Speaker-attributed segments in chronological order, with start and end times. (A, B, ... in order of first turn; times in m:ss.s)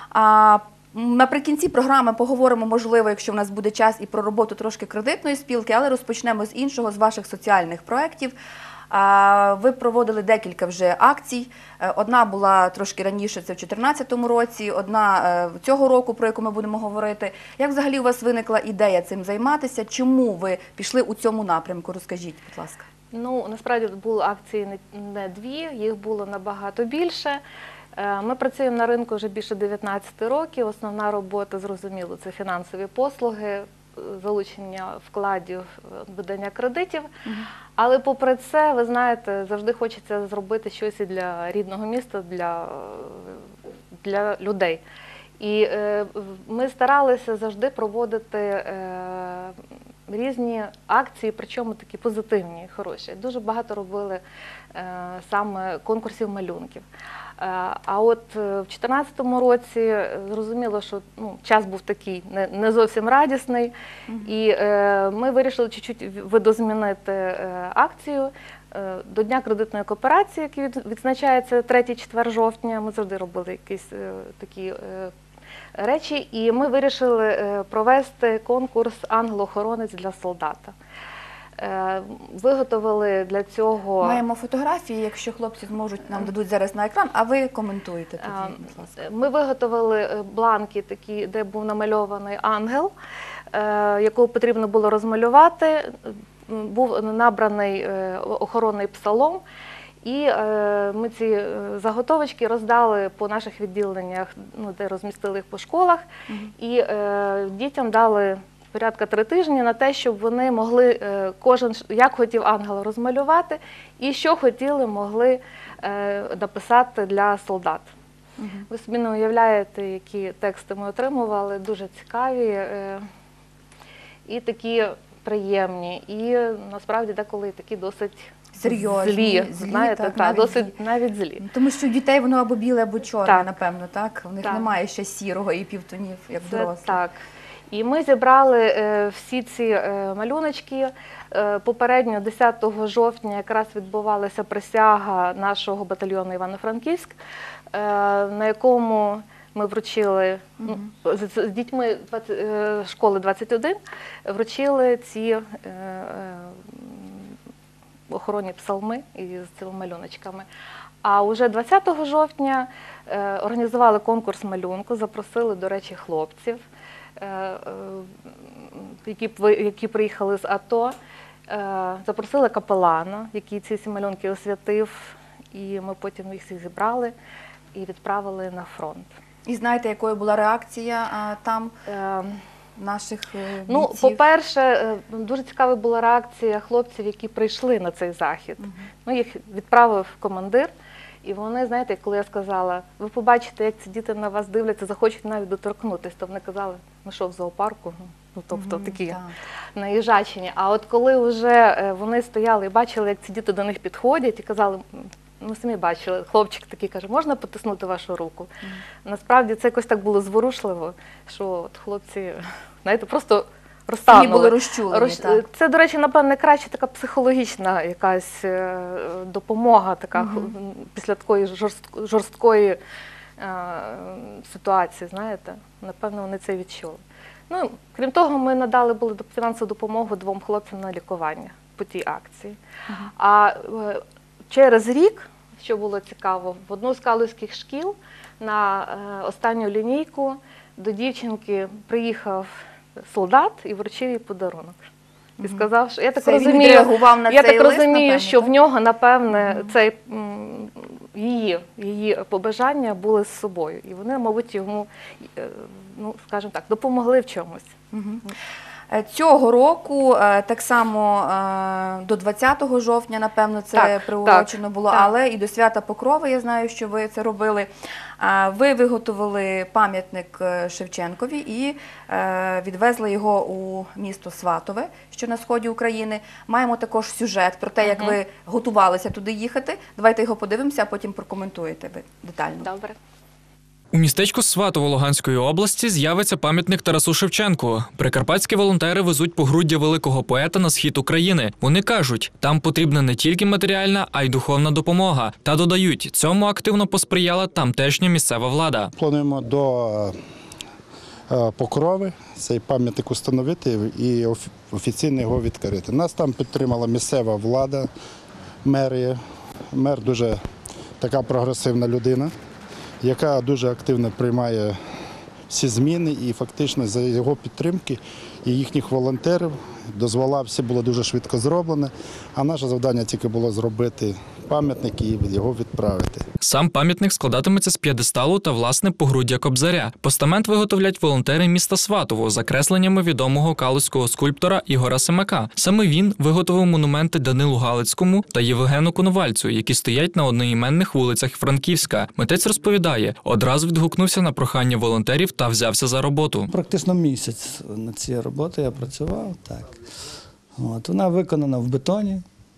0:00.1-0:08.3 A
0:08.9-0:22.9 A
0:23.1-0:27.4 B
0:28.0-0:37.1 B
0:37.8-0:43.4 B
0:44.0-0:44.8 B
0:45.4-0:49.6 B
0:50.1-0:54.2 B
0:54.7-0:56.8 B
0:57.4-1:03.7 B
1:04.2-1:15.1 B
1:15.7-1:20.7 B
1:21.6-1:24.2 B
1:24.0-1:29.0 A
1:28.2-1:32.9 B
1:33.5-1:39.4 B
1:40.0-1:46.0 B
1:46.6-1:57.9 B
1:58.4-1:58.7 A
1:58.7-2:03.1 B
2:04.3-2:11.4 B
2:08.5-2:10.8 A
2:11.4-2:17.0 A
2:16.4-2:17.2 B
2:17.7-2:27.1 B
2:27.7-2:37.3 B
2:38.1-2:40.4 B
2:41.0-2:46.6 B
2:47.2-2:50.9 B
2:51.5-2:57.1 B
2:57.7-2:59.1 B
2:59.4-3:01.7 A
3:01.9-3:02.4 B
3:02.8-3:04.2 A
3:03.7-3:10.7 B
3:08.6-3:08.8 A
3:11.2-3:19.2 B
3:18.5-3:19.4 A
3:19.7-3:28.5 B
3:29.0-3:42.8 B
3:34.1-3:35.4 A
3:40.2-3:40.5 A
3:43.4-3:52.6 B
3:53.2-4:04.8 B
4:05.4-4:17.7 B
4:06.2-4:08.5 A
4:09.3-4:09.7 A
4:17.9-4:18.3 A
4:18.9-4:42.7 A
4:23.7-4:25.0 B
4:37.8-4:38.2 B
4:42.6-4:42.9 B
4:43.9-4:58.9 C
4:59.0-5:00.2 D
5:01.3-5:07.9 D
5:08.6-5:09.2 D
5:09.7-5:10.4 D
5:11.0-5:12.3 D
5:13.0-5:14.8 D
5:15.5-5:26.2 D
5:26.4-5:46.5 C
5:46.5-5:49.8 E
5:50.5-5:52.2 E